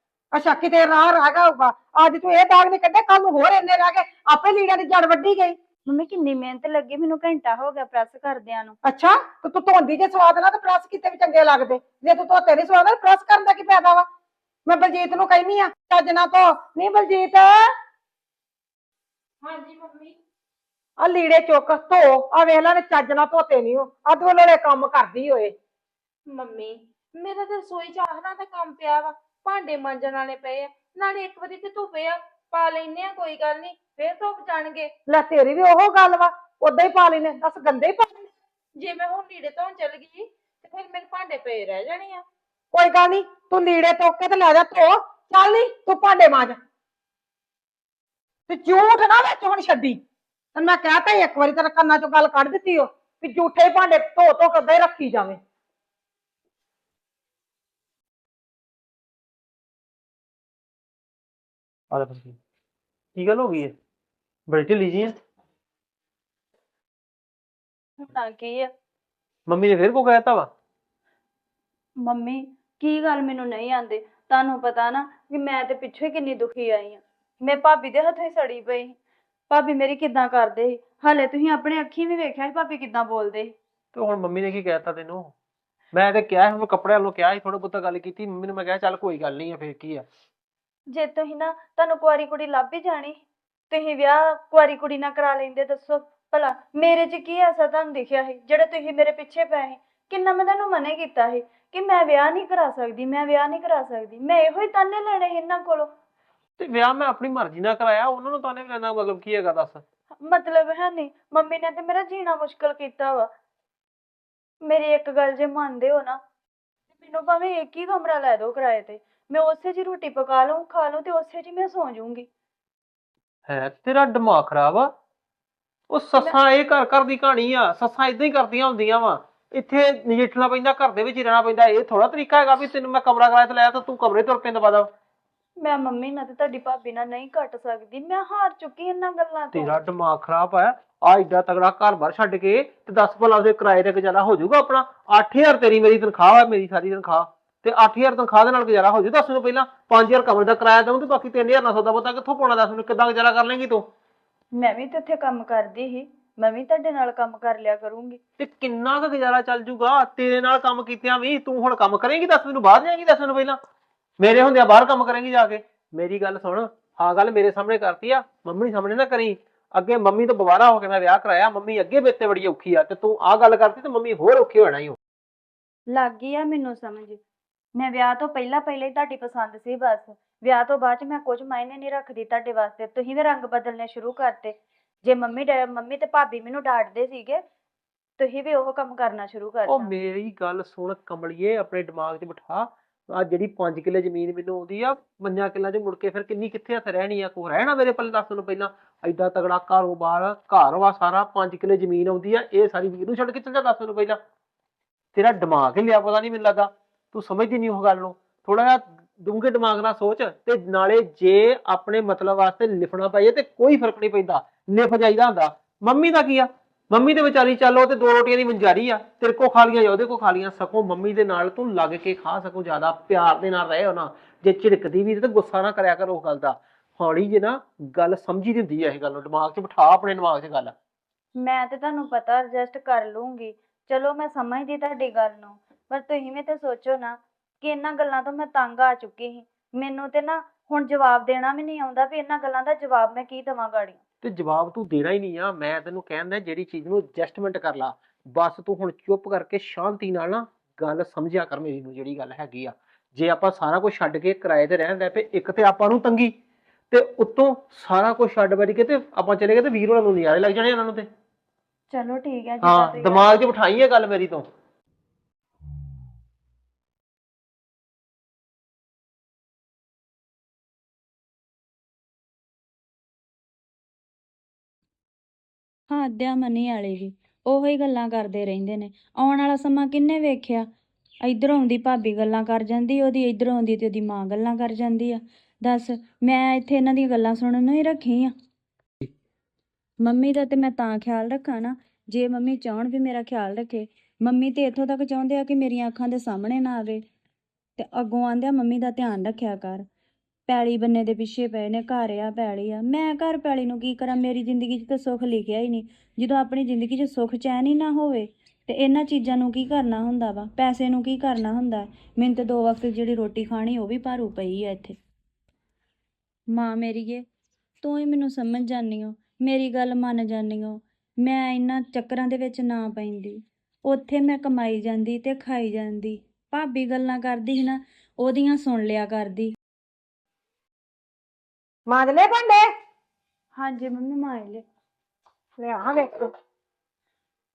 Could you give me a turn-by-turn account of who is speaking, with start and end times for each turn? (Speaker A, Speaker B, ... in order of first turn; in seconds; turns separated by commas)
Speaker A: 0.3-5.6, Speaker B: 5.8-8.8, Speaker A: 8.8-14.1, Speaker A: 14.7-17.7, Speaker C: 19.4-20.2, Speaker A: 21.0-25.5, Speaker C: 26.3-34.9, Speaker A: 35.1-38.3, Speaker C: 38.8-42.2, Speaker A: 42.7-46.6, Speaker A: 48.5-50.0, Speaker A: 50.5-55.4, Speaker D: 61.9-62.4, Speaker D: 63.2-63.7, Speaker D: 64.5-65.2, Speaker B: 68.0-68.7, Speaker D: 69.5-70.5, Speaker B: 72.0-79.0, Speaker B: 79.5-83.5, Speaker D: 83.9-85.3, Speaker D: 85.9-90.1, Speaker B: 90.9-105.9, Speaker D: 106.6-109.8, Speaker B: 110.2-113.3, Speaker B: 114.6-116.2, Speaker B: 117.0-122.3, Speaker D: 123.5-124.9, Speaker D: 125.9-134.9, Speaker B: 135.6-139.8, Speaker D: 139.5-153.9, Speaker B: 154.6-158.2, Speaker D: 158.4-163.6, Speaker D: 164.2-175.0, Speaker B: 175.9-177.2, Speaker B: 177.8-187.4, Speaker B: 188.2-189.9, Speaker D: 189.7-204.2, Speaker D: 205.1-230.7, Speaker B: 231.3-244.0, Speaker D: 244.2-256.3, Speaker D: 256.9-261.1, Speaker B: 261.9-263.3, Speaker D: 262.6-264.5, Speaker B: 275.9-280.7, Speaker B: 281.2-288.3, Speaker B: 290.0-297.0, Speaker B: 297.8-299.8, Speaker B: 300.5-315.0, Speaker B: 316.5-317.2, Speaker B: 317.8-329.5, Speaker A: 331.9-332.7, Speaker B: 333.6-334.6, Speaker A: 335.6-336.3